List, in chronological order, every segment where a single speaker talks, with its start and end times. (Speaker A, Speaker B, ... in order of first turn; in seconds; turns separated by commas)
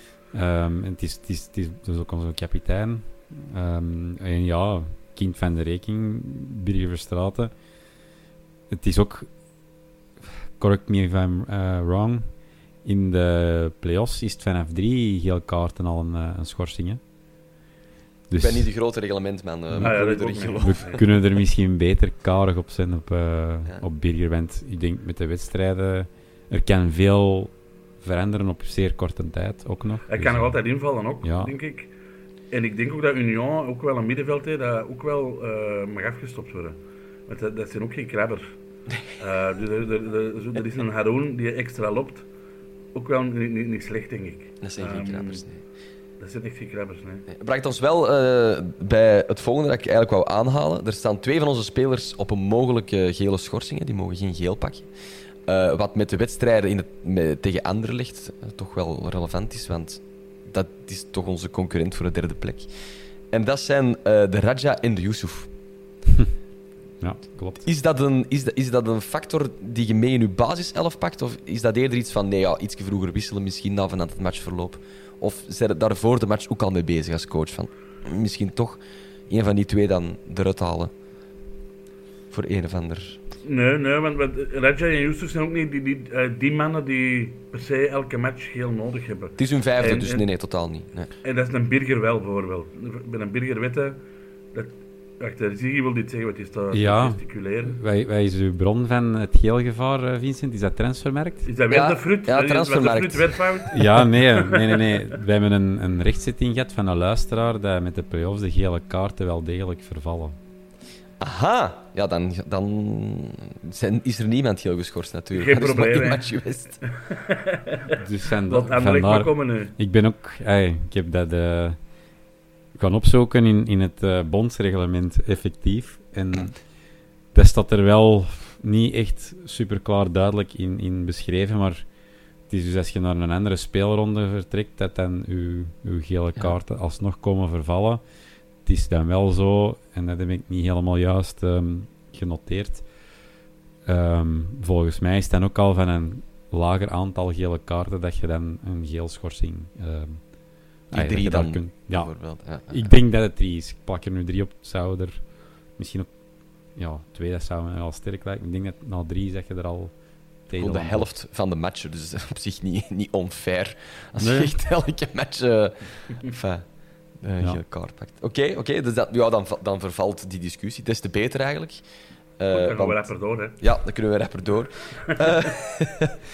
Speaker A: 0.3-7.5, Speaker A: 8.7-9.3, Speaker A: 10.6-17.0, Speaker A: 18.3-18.7, Speaker B: 18.3-21.0, Speaker C: 19.8-21.1, Speaker A: 20.6-30.6, Speaker C: 30.1-31.9, Speaker A: 31.2-31.5, Speaker C: 32.5-38.5, Speaker C: 39.2-42.2, Speaker C: 42.9-45.4, Speaker B: 44.6-45.6, Speaker C: 46.2-47.2, Speaker B: 47.3-54.9, Speaker B: 55.5-62.7, Speaker B: 63.3-65.5, Speaker A: 67.0-67.6, Speaker B: 67.6-80.9, Speaker B: 82.3-83.2, Speaker C: 83.4-90.2, Speaker B: 89.4-91.1, Speaker C: 91.2-94.0, Speaker C: 94.5-97.8, Speaker A: 96.7-101.5, Speaker C: 101.5-103.8, Speaker B: 101.7-103.7, Speaker A: 103.7-110.3, Speaker C: 104.4-104.8, Speaker B: 111.2-116.8, Speaker C: 115.3-118.0, Speaker A: 118.0-121.8, Speaker C: 118.5-119.7, Speaker A: 122.8-126.8, Speaker A: 127.3-131.9, Speaker A: 132.5-138.0, Speaker A: 138.6-142.8, Speaker A: 143.8-152.1, Speaker B: 150.9-152.9, Speaker A: 152.7-156.1, Speaker A: 156.7-161.1, Speaker B: 160.6-166.7, Speaker A: 164.2-164.5, Speaker B: 167.2-171.8, Speaker B: 172.4-173.1, Speaker C: 172.5-173.6, Speaker B: 173.6-176.2